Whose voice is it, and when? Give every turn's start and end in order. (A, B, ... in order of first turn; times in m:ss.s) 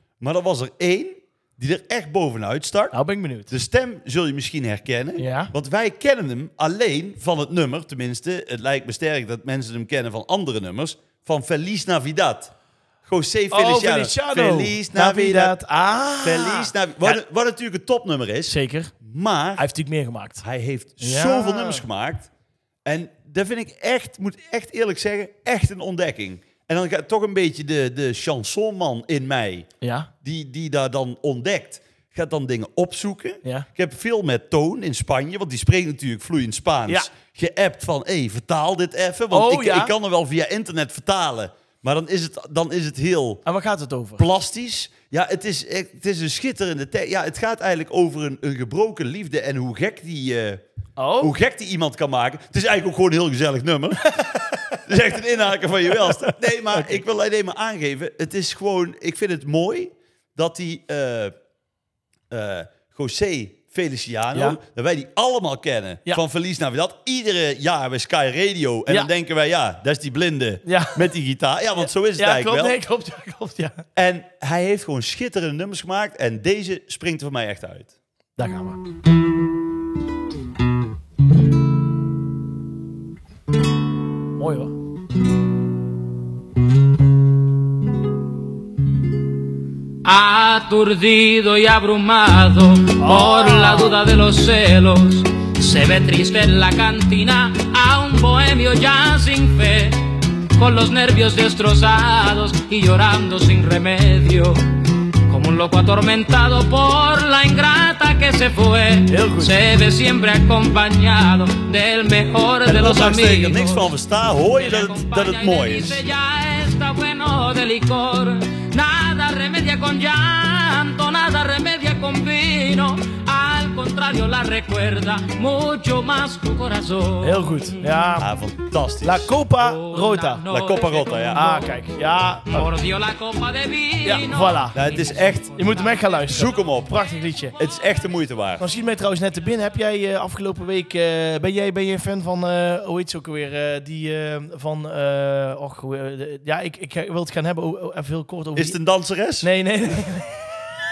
0:00.2-0:03.0 A
0:02.9-0:03.5 B
0:03.5-0:12.5 A
0:05.2-0:05.5 B
0:13.0-0:15.6 A
0:13.5-0:17.2 B
0:16.2-0:19.7 A
0:18.5-0:18.9 B
0:19.6-0:20.4 B
0:20.4-0:22.3 A
0:21.0-0:21.8 B
0:22.8-0:29.7 A
0:29.8-0:30.1 B
0:30.2-0:43.4 A
0:39.3-0:39.9 B
0:43.4-0:44.2 B
0:44.2-0:50.6 A
0:51.0-0:51.3 B
0:51.2-0:54.2 A
0:54.1-0:54.8 B
0:54.8-1:01.3 A
0:55.9-0:57.0 B
1:02.3-1:12.8 A
1:04.3-1:04.6 B
1:10.6-1:11.0 B
1:11.8-1:13.8 B
1:14.0-1:17.9 A
1:18.4-1:18.8 B
1:24.4-1:24.7 B
1:30.0-1:44.6 C
1:33.0-1:34.0 B
1:45.3-1:53.9 C
1:49.1-1:49.5 B
1:52.6-1:56.0 A
1:54.4-2:08.0 C
2:07.2-2:08.3 B
2:08.2-2:09.3 A
2:09.0-2:10.4 B
2:09.6-2:11.8 C
2:10.5-2:11.4 A
2:11.3-2:12.7 B
2:12.5-2:16.3 C
2:14.0-2:14.8 B
2:14.7-2:15.5 A
2:15.6-2:17.6 B
2:16.3-2:17.0 A
2:17.6-2:18.6 A
2:18.6-2:28.8 B
2:28.6-2:29.5 A
2:29.4-2:30.6 B